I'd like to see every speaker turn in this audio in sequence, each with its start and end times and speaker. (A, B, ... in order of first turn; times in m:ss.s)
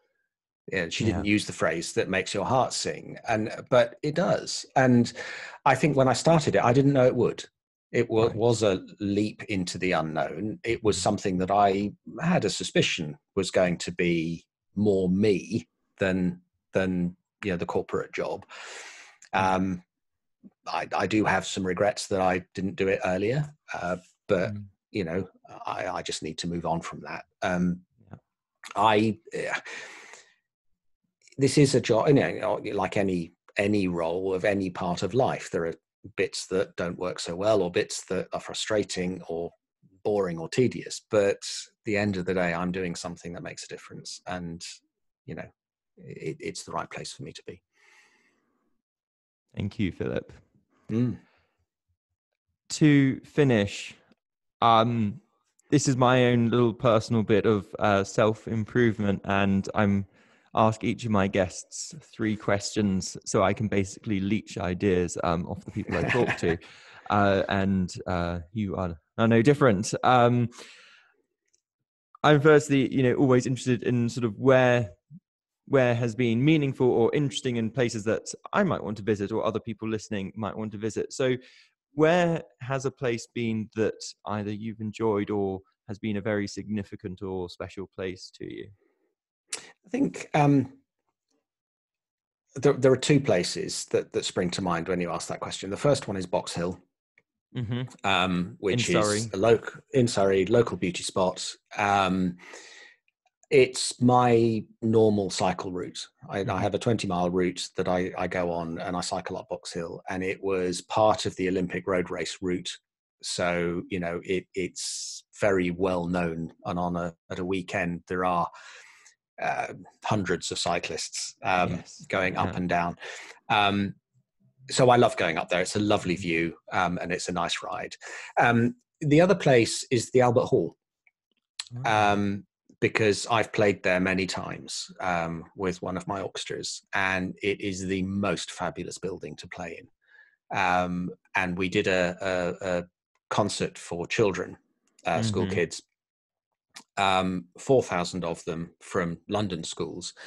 0:00.7-0:18.4 A
0:01.0-0:01.3 B
0:19.3-0:19.8 A
0:20.6-0:27.8 A
0:28.7-0:29.8 A
0:31.4-0:44.6 A
0:45.3-0:47.6 A
0:49.6-0:50.4 B
0:50.9-0:51.2 A
0:52.7-0:54.0 B
0:54.6-1:10.5 B
1:12.2-1:15.0 B
1:15.7-1:21.4 B
1:21.9-1:28.7 B
1:29.8-1:30.8 A
1:32.6-1:36.8 A
1:37.5-1:37.9 B
1:37.9-1:42.4 A
1:38.7-1:39.3 B
1:43.5-1:58.5 A
1:59.4-2:03.0 A
2:01.6-2:02.6 B
2:03.5-2:04.0 A
2:04.7-2:10.8 A
2:11.8-2:19.9 A
2:20.5-2:25.8 A
2:25.2-2:25.6 B
2:27.0-2:30.1 A